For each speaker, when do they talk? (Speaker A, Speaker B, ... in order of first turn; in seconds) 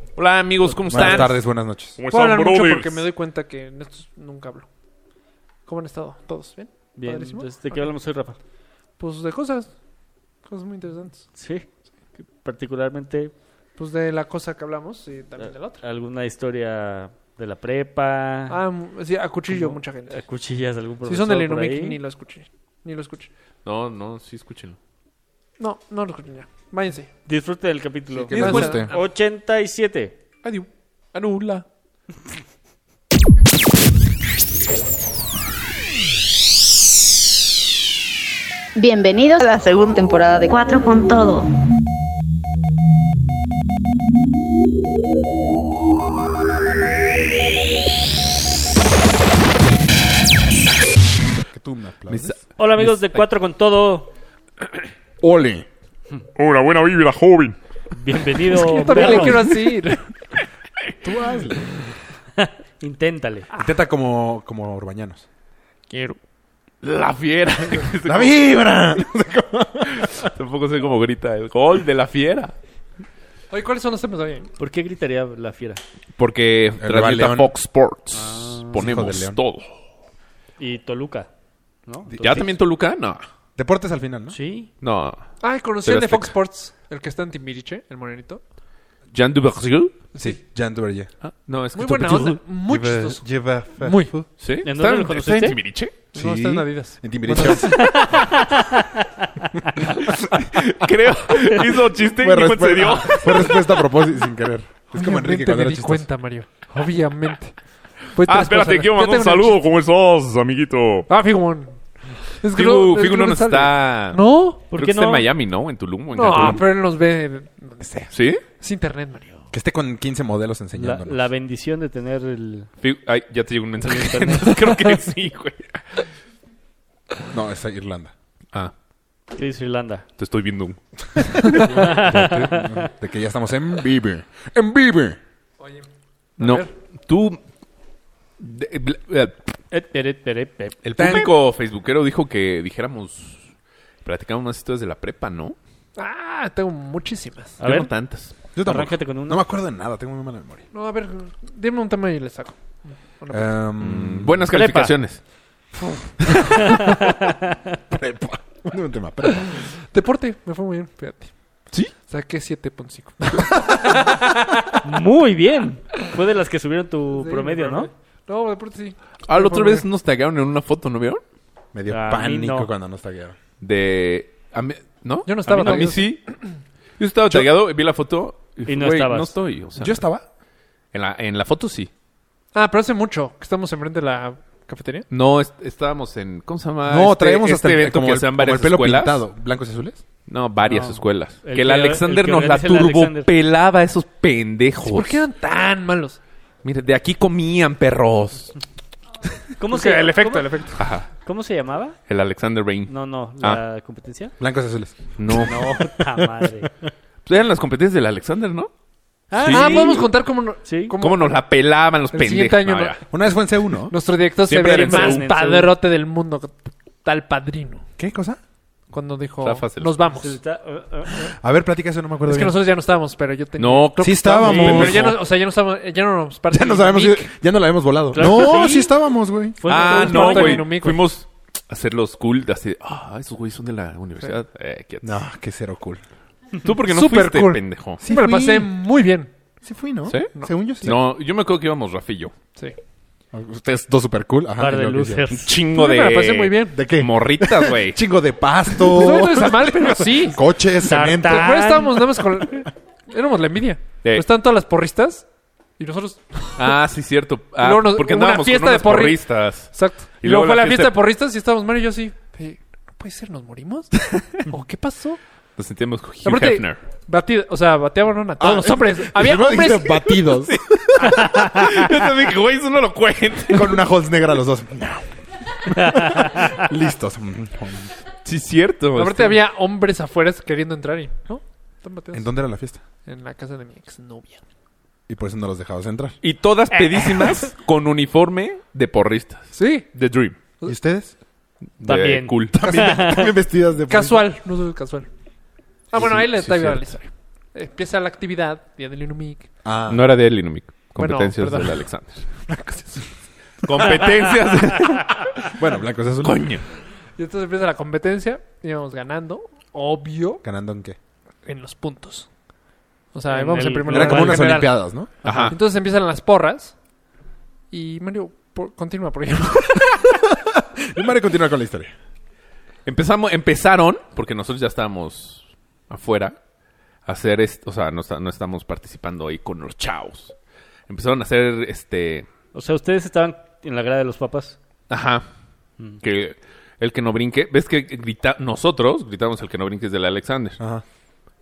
Speaker A: 0.2-1.4, 2.0-3.1, 23.6-24.8, 28.3-28.9, 30.4-31.6, 52.1-53.2, 56.4-57.6, 59.0-59.5, 66.8-68.4, 69.9-72.5, 76.2-79.7, 82.2-83.2, 84.8-85.2, 85.8-86.3, 89.1-90.0, 91.2-92.4, 94.4-95.9, 100.0-103.8, 108.2-111.1, 112.5-116.7, 118.1-118.4, 122.8-126.1, 130.2-131.6, 136.4-137.4, 138.4-139.5, 140.8-143.4, 144.0-145.6, 147.6-148.3, 153.8-155.2, 169.3-171.2, 173.6-176.2, 177.0-180.0, 180.9-181.9, 185.1-189.2, 190.3-195.3, 196.6-198.6, 200.8-201.1, 202.1-203.6, 205.2-206.3, 207.3-208.7, 209.3-210.1, 211.0-213.0, 214.5-215.3, 219.4-220.0, 223.6-225.2, 229.7-235.2, 236.6-238.0, 240.1-242.3, 245.3-248.1, 256.6-261.0, 265.6-266.8, 270.5-273.8, 278.2-279.4, 286.2-290.4, 291.8-292.6, 296.4-296.7, 299.9-302.3, 303.6-305.5, 306.2-306.6, 315.2-315.6, 322.9-326.4, 327.1-330.4, 330.9-332.3, 334.9-335.3, 336.0-340.6
Speaker B: 0.9-2.0, 28.1-28.9, 51.5-52.4, 55.2-55.7, 61.0-61.8, 63.5-65.2, 68.0-70.2, 76.8-77.5, 78.8-79.4, 82.1-82.5, 83.6-84.4, 90.2-91.1, 92.6-94.3, 96.2-98.0, 102.2-106.1, 119.5-121.2, 127.3-128.1, 131.7-135.2, 148.6-150.6, 153.3-154.5, 157.9-159.6, 171.7-173.4, 179.8-180.3, 186.9-190.0, 204.4-205.0, 213.1-213.9, 218.0-218.4, 221.2-222.6, 224.0-225.2, 226.5-229.6, 235.0-236.0, 238.0-238.7, 239.6-241.0, 243.3-245.2, 246.7-251.6, 268.4-271.6, 273.5-275.1, 275.6-277.9, 282.1-282.8, 285.1-286.2, 290.6-291.1, 292.5-294.2, 295.9-296.8, 299.6-300.1, 302.5-303.0, 305.5-306.5, 310.4-311.0, 313.9-315.5, 320.3-321.9, 340.6-340.8
Speaker C: 2.1-4.7, 5.7-7.9, 9.0-9.7, 10.5-11.2, 13.8-15.8, 18.5-20.2, 21.1-23.3, 25.6-27.1, 28.4-28.9, 58.5-60.0, 65.9-66.2, 73.5-74.5, 85.4-88.4, 90.1-90.4, 91.7-93.2, 93.8-94.1, 96.1-97.0, 105.0-107.5, 108.1-109.6, 111.1-111.8, 112.4-114.6, 116.2-119.4, 136.4-136.7, 146.0-147.6, 150.7-152.6, 153.2-153.5, 159.6-161.3, 162.1-164.8, 167.2-169.9, 175.3-176.1, 182.5-185.1, 194.8-196.2, 199.7-200.8, 209.5-211.4, 212.1-213.0, 213.9-217.8, 218.9-220.4, 222.3-227.3, 229.7-231.0, 236.8-239.3, 240.4-241.0, 245.6-246.8, 248.8-250.4, 251.1-256.8, 257.6-265.2, 266.2-270.2, 279.0-282.3, 283.1-284.4, 286.7-287.5, 289.6-289.9, 293.9-295.1, 295.9-299.5, 301.0-301.8, 307.2-310.4, 311.4-312.3, 313.1-316.7, 317.7-320.3
Speaker D: 7.0-8.4, 11.3-13.3, 15.4-18.6, 19.5-22.0, 27.3-30.1, 52.6-54.1, 57.9-59.5, 62.4-63.5, 74.6-75.8, 78.1-78.8, 80.6-81.3, 81.9-82.4, 84.3-84.7, 94.6-95.6, 97.3-99.7, 114.7-115.3, 120.8-122.7, 123.8-125.0, 129.4-130.1, 131.5-132.9, 139.7-141.3, 147.6-147.9, 148.6-149.4, 154.5-154.9, 156.5-157.8, 164.8-167.9, 171.9-172.7, 175.5-175.9, 178.7-179.3, 190.6-193.3, 199.6-202.0, 202.9-204.3, 205.3-206.7, 209.3-210.1, 210.7-211.0, 214.5-215.8, 220.1-221.3, 224.4-224.8, 228.1-228.9, 229.6-230.7, 244.6-245.5, 250.8-252.4, 275.8-276.6, 291.8-293.3, 313.3-314.7, 332.5-334.6
Speaker E: 38.8-41.5